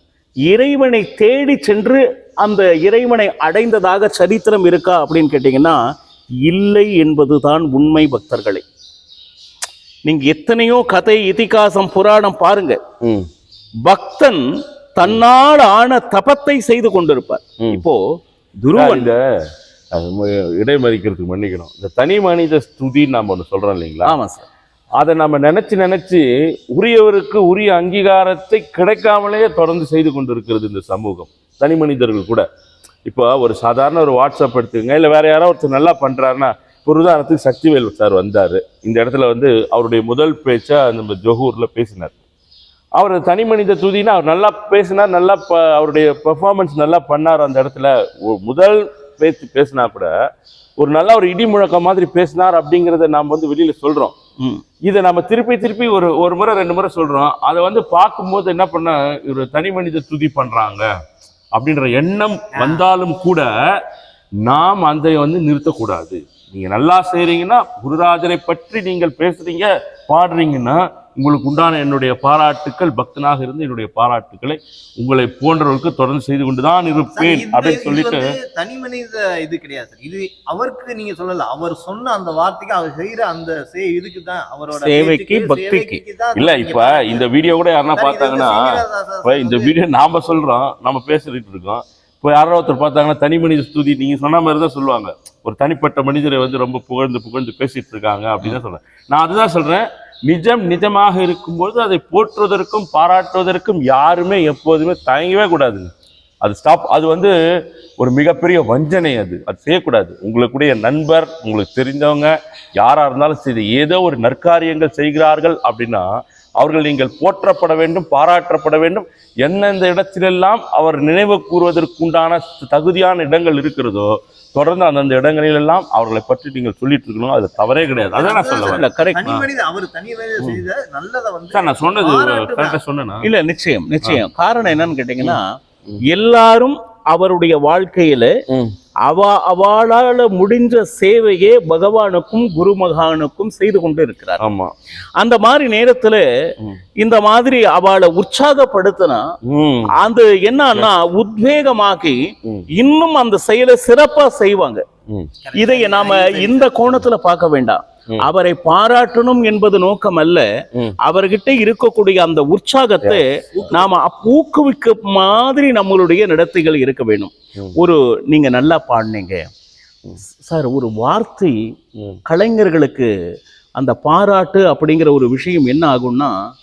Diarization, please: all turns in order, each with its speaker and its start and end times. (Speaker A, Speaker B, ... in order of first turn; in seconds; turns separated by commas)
Speaker A: 0.5-5.8, Speaker A: 6.4-8.6, Speaker A: 10.0-12.8, Speaker B: 13.0-13.3, Speaker A: 13.8-18.0, Speaker A: 18.6-19.1, Speaker B: 18.7-19.2, Speaker B: 19.9-24.1, Speaker A: 24.0-24.5, Speaker B: 25.0-32.4, Speaker B: 33.0-42.1, Speaker B: 43.0-50.1, Speaker B: 50.8-54.1, Speaker B: 54.8-60.9, Speaker B: 61.5-63.8, Speaker B: 64.4-78.3, Speaker C: 77.1-87.3, Speaker A: 84.7-86.0, Speaker B: 86.3-105.9, Speaker C: 87.9-89.7, Speaker B: 106.4-107.3, Speaker B: 108.0-129.4, Speaker C: 128.1-132.8, Speaker A: 128.5-129.3, Speaker B: 131.5-133.3, Speaker A: 133.2-135.4, Speaker B: 135.2-136.0, Speaker A: 136.1-138.3, Speaker B: 138.5-138.7, Speaker A: 139.1-144.4, Speaker B: 144.4-144.7, Speaker A: 145.2-146.2, Speaker A: 147.0-149.2, Speaker B: 149.4-149.9, Speaker A: 149.9-152.2, Speaker A: 152.7-154.8, Speaker C: 155.4-156.8, Speaker A: 155.6-160.4, Speaker A: 161.0-169.5, Speaker C: 163.5-163.9, Speaker A: 170.4-171.6, Speaker A: 172.2-173.1, Speaker A: 173.8-176.3